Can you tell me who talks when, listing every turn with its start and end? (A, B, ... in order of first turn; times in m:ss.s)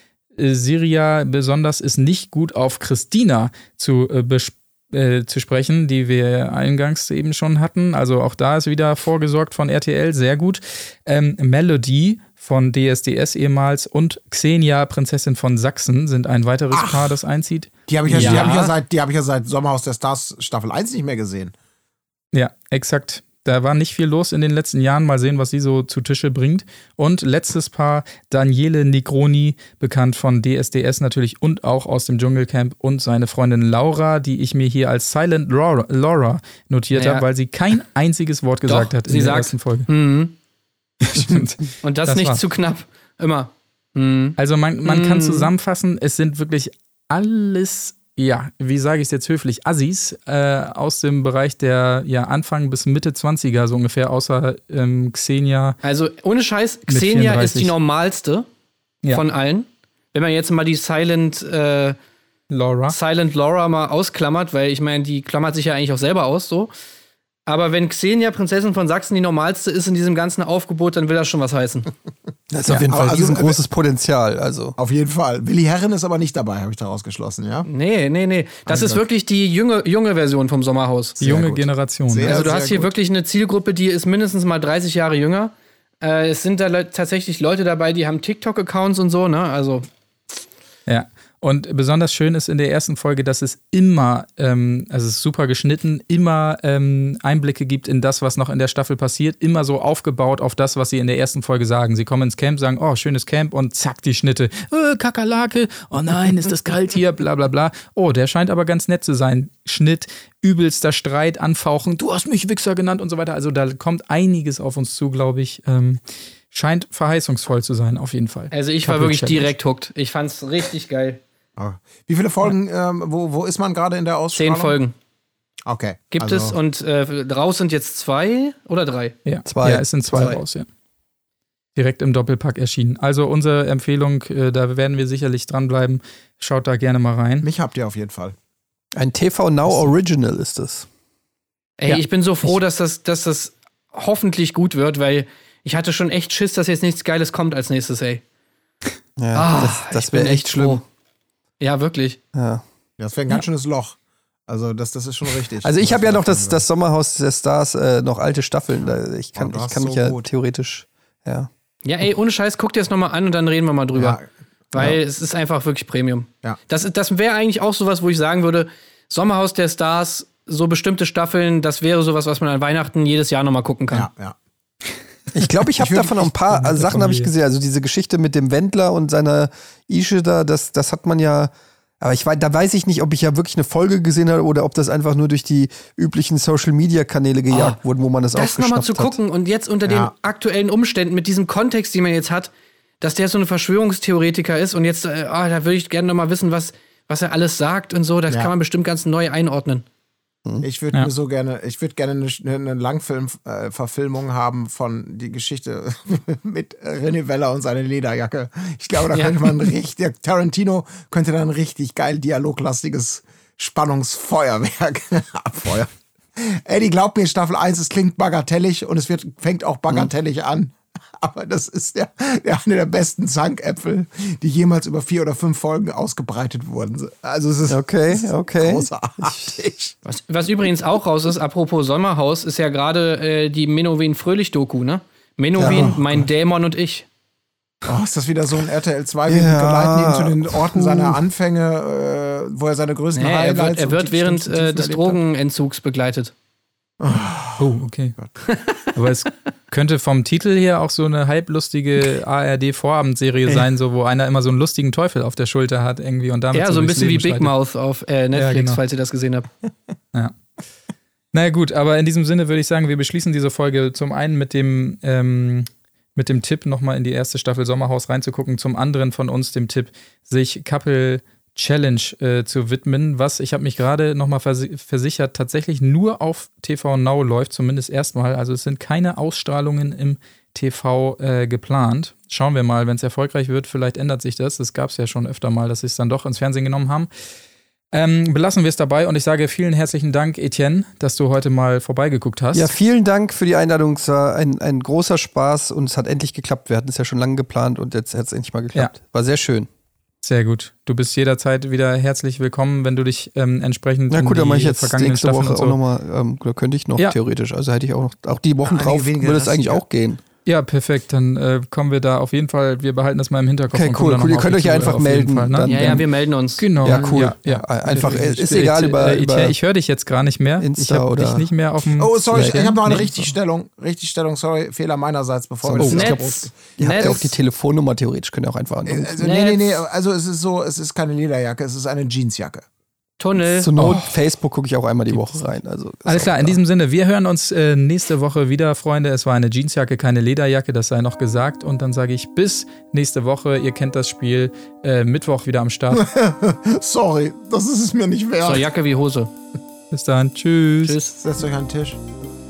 0:00.4-0:18.5 A
0:16.7-0:17.2 B
0:17.9-0:21.5 B
0:18.1-0:18.7 C
0:22.3-0:39.9 A
0:36.9-0:37.3 C
0:38.7-0:40.3 C
0:41.0-0:42.4 A
0:41.8-0:45.5 C
0:44.4-0:55.8 A
0:55.8-0:58.5 C
0:56.9-0:57.7 A
0:59.1-1:02.0 C
1:02.5-1:03.0 A
1:02.9-1:06.7 C
1:07.5-1:11.9 C
1:12.5-1:14.8 D
1:12.7-1:13.6 B
1:14.8-1:17.7 B
1:17.7-1:21.2 C
1:18.7-1:19.0 B
1:21.2-1:22.9 B
1:21.2-1:22.6 A
1:22.2-1:29.9 C
1:30.9-1:59.5 A
1:58.5-2:01.2 C
2:01.6-2:04.8 B
2:04.4-2:04.9 C
2:05.7-2:06.6 B
2:06.1-2:09.2 C
2:09.3-2:10.7 A
2:09.4-2:10.4 D
2:10.1-2:10.4 C
2:11.8-2:17.5 A
2:17.4-2:18.4 B
2:19.0-2:20.9 D
2:21.8-2:28.2 C
2:29.2-2:30.8 D
2:29.3-2:30.8 C
2:31.6-2:32.2 C
2:32.3-2:32.6 D
2:33.0-2:36.6 B
2:35.6-2:41.5 D
2:38.9-2:40.3 B
2:41.8-2:44.2 C
2:44.0-2:44.3 B
2:44.7-2:54.1 C
2:53.9-2:54.4 B
2:55.4-3:09.2 D
2:55.8-2:56.3 B
2:56.5-2:57.3 A
3:07.5-3:07.8 C
3:08.4-3:19.8 C
3:09.9-3:10.1 B
3:20.6-3:50.2 B
3:29.1-3:29.7 C
3:47.7-3:49.5 D
3:50.2-3:57.1 C
3:55.6-3:56.3 B
3:55.6-3:56.0 D
3:57.8-4:05.2 B
3:59.3-4:01.2 D
4:03.2-4:06.3 C
4:07.0-4:08.3 B
4:07.6-4:08.2 A
4:08.4-4:08.8 C
4:08.9-4:17.5 A
4:16.5-4:19.5 C
4:18.4-4:18.8 A
4:21.3-4:47.1 A
4:47.9-4:52.7 A
4:52.5-4:59.7 D
5:00.2-5:05.8 A
5:04.1-5:10.2 D
5:08.6-5:09.8 B
5:10.5-5:16.0 A
5:13.7-5:16.0 D
5:15.7-5:17.2 C
5:16.6-5:23.1 A
5:16.8-5:19.6 D
5:20.6-5:21.5 D
5:22.0-5:27.3 B
5:22.3-5:23.3 D
5:25.6-5:26.2 D
5:25.8-5:26.2 A
5:25.8-5:27.2 C
5:26.8-5:29.2 D
5:28.8-5:32.6 B
5:29.2-5:29.6 C
5:33.2-5:34.0 C
5:33.6-5:36.6 D
5:33.8-5:34.1 A
5:35.1-5:35.5 A
5:36.1-5:46.1 A
5:45.9-5:48.7 B
5:48.4-5:49.3 C
5:49.9-5:51.0 A
5:50.8-5:51.1 C
5:51.2-5:52.0 B